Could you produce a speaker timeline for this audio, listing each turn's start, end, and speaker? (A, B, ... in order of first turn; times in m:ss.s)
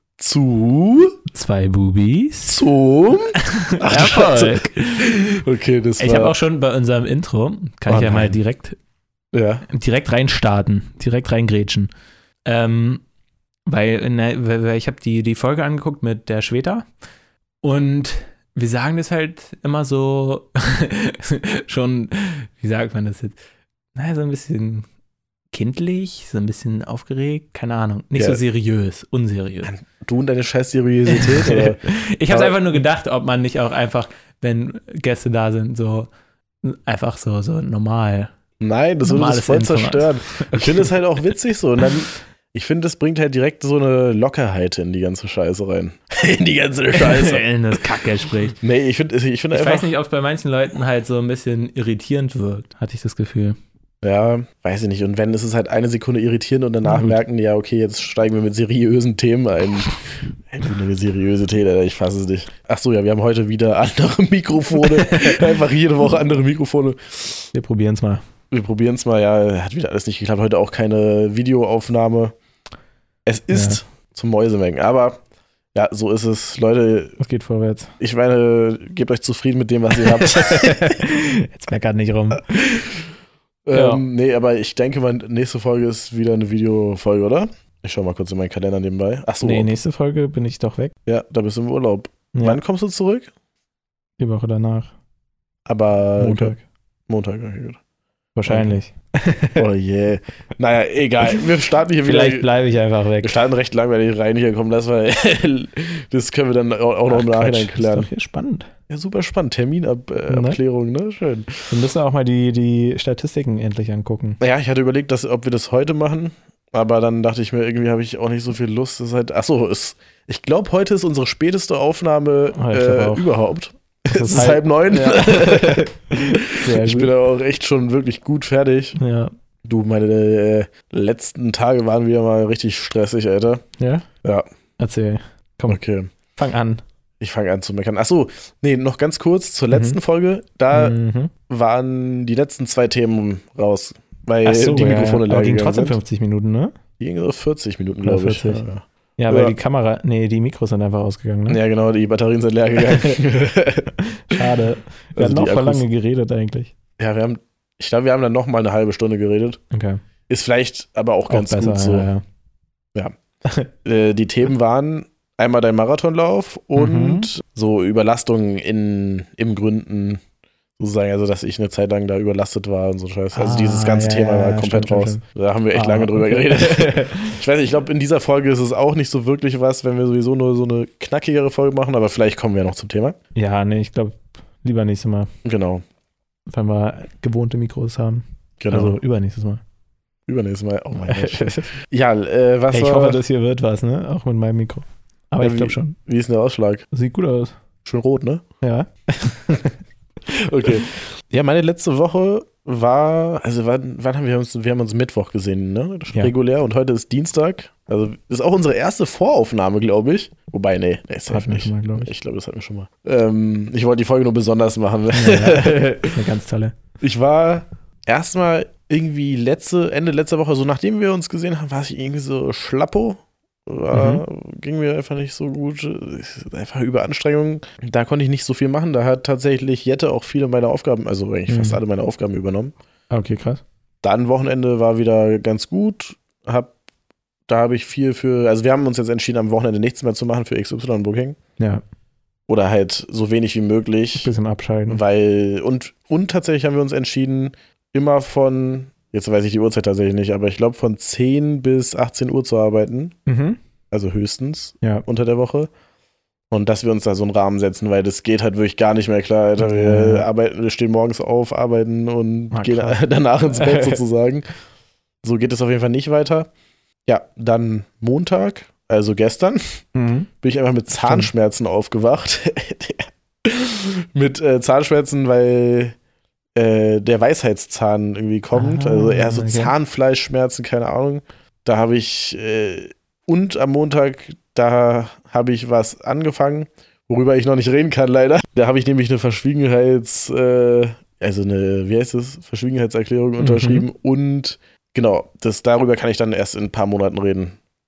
0:00.2-0:01.2 A
0:01.3-0:02.6 B
0:02.5-0:06.3 A
0:03.4-0:05.2 B
0:06.0-0:08.8 B
0:07.9-0:08.4 A
0:09.3-0:09.7 A
0:09.7-0:11.9 B
0:12.5-0:13.0 B
0:13.7-0:16.8 B
0:17.6-0:23.4 B
0:24.0-0:24.9 B
0:25.5-0:29.7 B
0:29.6-0:32.8 A
0:31.1-0:36.1 B
0:36.6-0:38.3 B
0:38.6-0:48.0 A
0:39.0-0:41.0 B
0:46.9-0:48.6 B
0:48.6-0:49.9 A
0:49.5-0:53.6 B
0:54.0-1:07.5 A
0:56.9-0:57.2 B
1:05.0-1:05.3 B
1:07.5-1:08.2 B
1:08.5-1:12.3 A
1:13.3-1:15.2 A
1:13.5-1:13.8 B
1:15.7-1:17.2 A
1:17.2-1:17.9 B
1:18.0-1:21.0 A
1:20.1-1:22.8 B
1:22.5-1:23.0 A
1:23.7-1:29.7 A
1:23.7-1:24.0 B
1:29.4-1:30.9 B
1:31.1-1:33.3 A
1:32.3-1:32.6 B
1:34.2-1:34.9 B
1:35.7-1:36.5 A
1:36.2-1:36.6 B
1:37.1-1:37.8 A
1:38.4-1:39.6 B
1:38.5-1:38.7 A
1:39.6-1:42.5 A
1:42.0-1:43.4 B
1:43.2-1:48.1 A
1:47.1-1:48.7 B
1:48.9-1:51.7 A
1:50.3-1:50.6 B
1:51.7-1:54.4 B
1:54.4-2:09.0 A
2:02.6-2:03.3 B
2:04.1-2:07.1 B
2:09.0-2:09.3 B
2:09.6-2:13.6 A
2:13.8-2:14.1 B
2:14.8-2:15.8 B
2:15.7-2:16.1 A
2:16.4-2:16.8 B
2:17.2-2:21.0 A
2:19.7-2:20.0 B
2:20.7-2:21.3 B
2:21.5-2:26.0 A
2:24.4-2:26.8 B
2:27.0-2:29.6 A
2:28.0-2:28.7 B
2:29.2-2:31.6 B
2:31.5-2:34.4 A
2:34.1-2:36.7 B
2:35.2-2:35.8 A
2:37.0-2:39.6 A
2:39.7-2:40.0 B
2:40.3-2:42.1 A
2:41.3-2:42.2 B
2:43.8-2:50.2 A
2:46.8-2:47.3 B
2:50.8-3:03.2 A
2:53.3-2:57.4 B
3:03.4-3:05.3 B
3:05.4-3:05.8 A
3:06.5-3:09.6 B
3:08.6-3:09.0 A
3:10.3-3:13.2 A
3:11.0-3:11.7 B
3:12.7-3:16.0 B
3:15.4-3:16.8 A
3:16.9-3:17.6 B
3:17.8-3:18.4 A
3:18.6-3:19.8 B
3:20.3-3:36.2 A
3:31.3-3:32.1 B
3:35.1-3:36.8 B
3:37.0-3:52.7 A
3:43.9-3:44.2 B
3:51.5-3:51.8 B
3:53.1-3:53.6 B
3:54.0-3:56.7 A
3:57.5-4:01.4 A
4:02.5-4:04.3 A
4:04.2-4:05.0 B
4:04.9-4:13.2 A
4:13.3-4:13.6 B
4:13.9-4:15.7 A
4:16.5-4:24.5 A
4:19.6-4:20.3 B
4:22.5-4:23.0 B
4:23.5-4:24.0 B
4:25.2-4:26.5 A
4:27.1-4:29.6 A
4:30.0-4:30.3 B
4:30.4-4:36.0 A
4:31.0-4:31.3 B
4:36.6-4:57.6 A
4:38.5-4:39.7 B
4:53.4-4:53.9 B